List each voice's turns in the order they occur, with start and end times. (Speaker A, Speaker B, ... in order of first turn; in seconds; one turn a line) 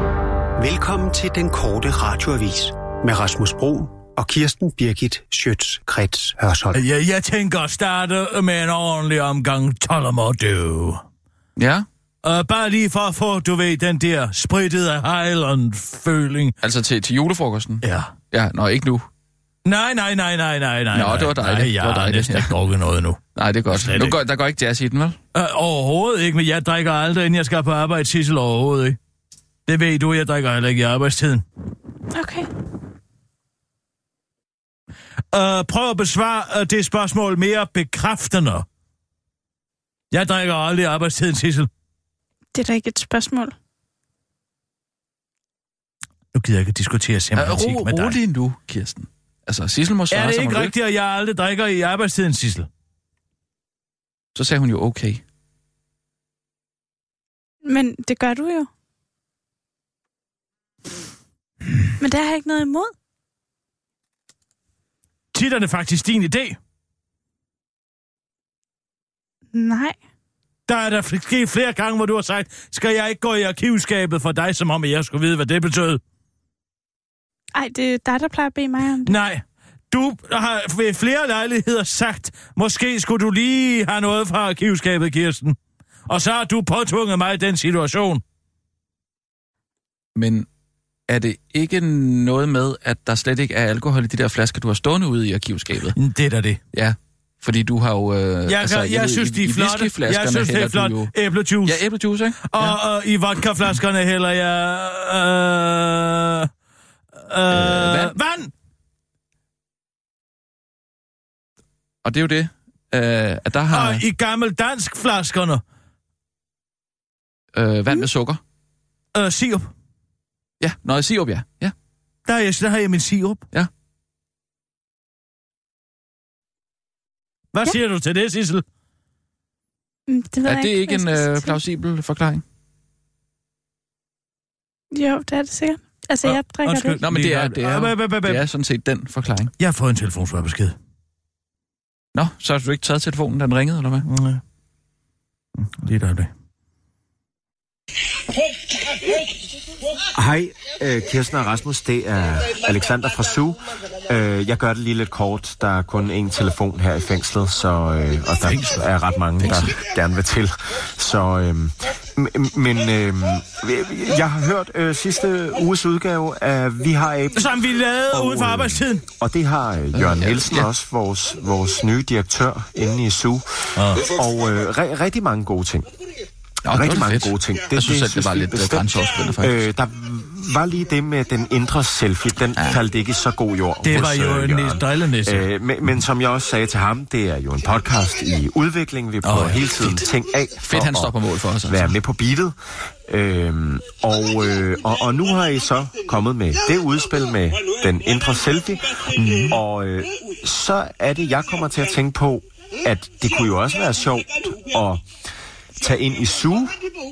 Speaker A: 0.6-6.8
Speaker B: 6.7-11.0
Speaker C: 11.6-11.9
Speaker B: 12.2-16.6
Speaker C: 16.6-19.1
Speaker B: 17.8-18.1
Speaker B: 19.6-24.2
Speaker C: 20.9-22.5
Speaker C: 23.4-25.2
Speaker B: 25.3-29.0
Speaker B: 29.7-31.4
Speaker D: 32.1-32.5
Speaker B: 35.3-38.7
Speaker B: 40.1-41.7
Speaker D: 42.5-43.5
Speaker B: 46.3-48.2
Speaker C: 47.4-50.7
Speaker B: 50.1-52.7
Speaker C: 54.4-55.2
Speaker D: 57.7-58.7
Speaker D: 62.0-62.9
Speaker B: 65.3-66.6
Speaker D: 69.5-70.0
Speaker B: 70.7-76.0
Speaker D: 77.5-79.2
Speaker B: 79.0-85.6
Speaker B: 86.1-88.2
Speaker C: 90.2-90.5
Speaker C: 91.1-96.0
Speaker B: 96.0-96.6
Speaker C: 96.7-101.1
Speaker B: 98.5-101.8
Speaker C: 101.7-102.8
Speaker B: 102.5-106.5
Speaker B: 107.2-108.5
Speaker C: 107.5-108.2
Speaker C: 112.0-114.0
Speaker B: 113.7-115.6
Speaker C: 117.5-118.4
Speaker B: 119.2-119.7
Speaker C: 120.6-121.7
Speaker B: 122.3-123.4
Speaker B: 127.5-128.7
Speaker D: 130.1-131.6
Speaker C: 130.4-132.4
Speaker D: 134.9-137.0
Speaker B: 136.2-138.4
Speaker C: 137.0-139.5
Speaker B: 139.6-140.8
Speaker C: 142.2-144.1
Speaker B: 144.1-144.4
Speaker B: 145.6-146.3
Speaker E: 150.2-167.5
Speaker B: 158.4-158.9
Speaker B: 159.4-159.7
Speaker B: 167.3-169.0
Speaker E: 168.1-173.5
Speaker C: 169.9-170.7
Speaker B: 173.8-174.0
Speaker E: 174.0-175.9
Speaker C: 176.7-179.7
Speaker E: 176.7-191.2
Speaker C: 182.6-182.8
Speaker B: 183.8-185.5
Speaker B: 189.2-190.0
Speaker C: 190.6-192.0
Speaker E: 191.7-205.2
Speaker B: 199.2-199.5
Speaker C: 199.2-199.5
Speaker E: 205.8-206.8